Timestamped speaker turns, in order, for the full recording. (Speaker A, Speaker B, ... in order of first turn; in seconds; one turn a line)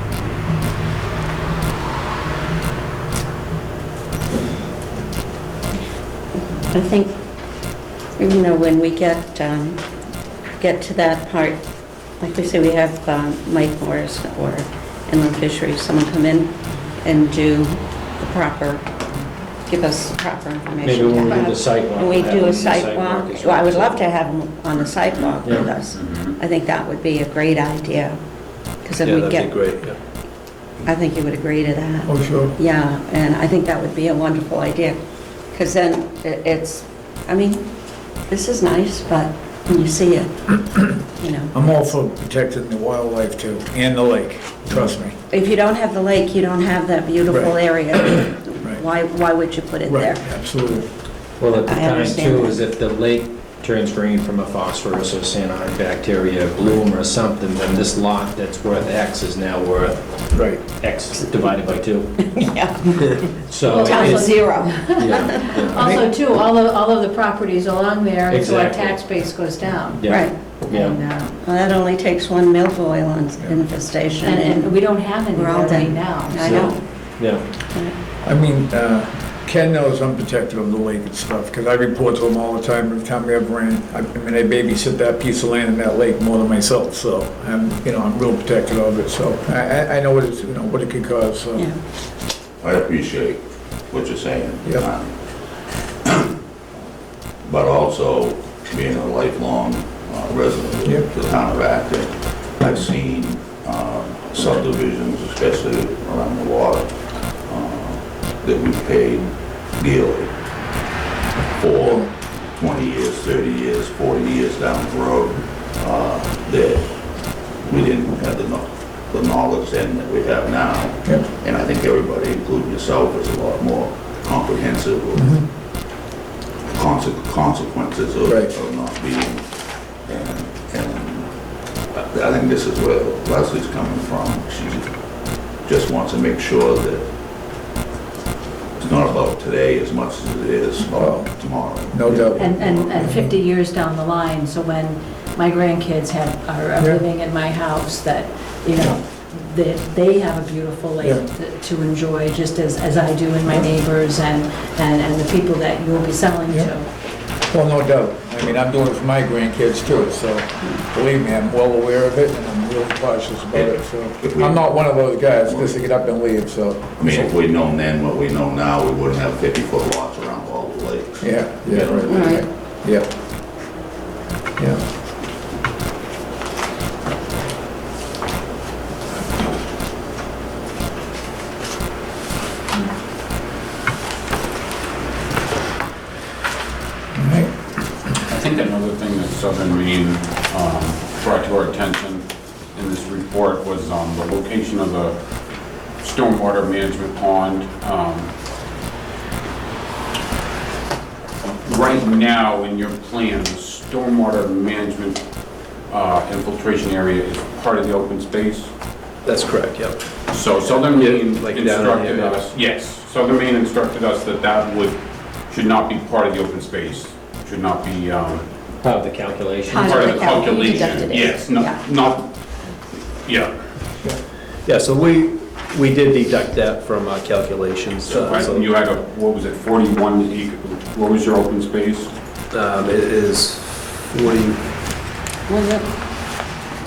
Speaker A: 6.6-7.1
Speaker A: 8.2-9.8
Speaker A: 10.6-11.6
Speaker A: 12.2-18.9
Speaker A: 19.6-28.2
Speaker B: 20.8-24.0
Speaker B: 25.4-25.7
Speaker C: 25.9-26.4
Speaker A: 28.8-29.5
Speaker D: 29.0-30.0
Speaker A: 30.8-35.0
Speaker E: 32.0-32.5
Speaker A: 35.5-37.6
Speaker A: 38.2-41.5
Speaker E: 41.5-45.1
Speaker A: 45.3-50.2
Speaker E: 47.3-47.5
Speaker E: 49.9-50.9
Speaker B: 51.4-62.1
Speaker A: 51.6-52.6
Speaker A: 62.2-65.6
Speaker B: 63.5-64.2
Speaker F: 63.7-71.3
Speaker B: 65.0-65.8
Speaker E: 65.8-66.0
Speaker B: 68.3-69.1
Speaker B: 70.0-70.9
Speaker A: 70.1-70.6
Speaker A: 71.3-74.7
Speaker F: 74.2-76.8
Speaker A: 75.3-76.8
Speaker B: 77.2-77.4
Speaker A: 77.7-78.0
Speaker E: 78.2-91.7
Speaker G: 92.6-95.2
Speaker G: 95.7-96.3
Speaker G: 97.4-110.3
Speaker G: 111.5-116.9
Speaker G: 117.6-125.2
Speaker E: 125.2-125.5
Speaker G: 126.6-129.4
Speaker E: 128.3-128.5
Speaker G: 130.0-131.3
Speaker G: 131.9-137.1
Speaker G: 138.8-142.5
Speaker E: 140.9-143.3
Speaker F: 142.4-156.9
Speaker E: 157.4-167.3
Speaker G: 163.5-164.6
Speaker G: 165.4-165.7
Speaker G: 167.0-172.0
Speaker E: 171.2-173.1
Speaker A: 172.1-172.4
Speaker E: 174.6-174.8
Speaker E: 187.1-187.5
Speaker C: 188.3-195.2
Speaker C: 196.0-198.3
Speaker C: 201.6-205.2
Speaker C: 205.9-208.7
Speaker D: 209.2-210.0
Speaker C: 210.3-218.4
Speaker D: 210.6-212.4
Speaker B: 218.8-220.2
Speaker C: 219.7-222.3
Speaker A: 219.7-221.8
Speaker C: 222.9-223.5
Speaker D: 224.7-228.7
Speaker C: 228.1-232.1
Speaker D: 232.5-234.6
Speaker A: 235.5-235.9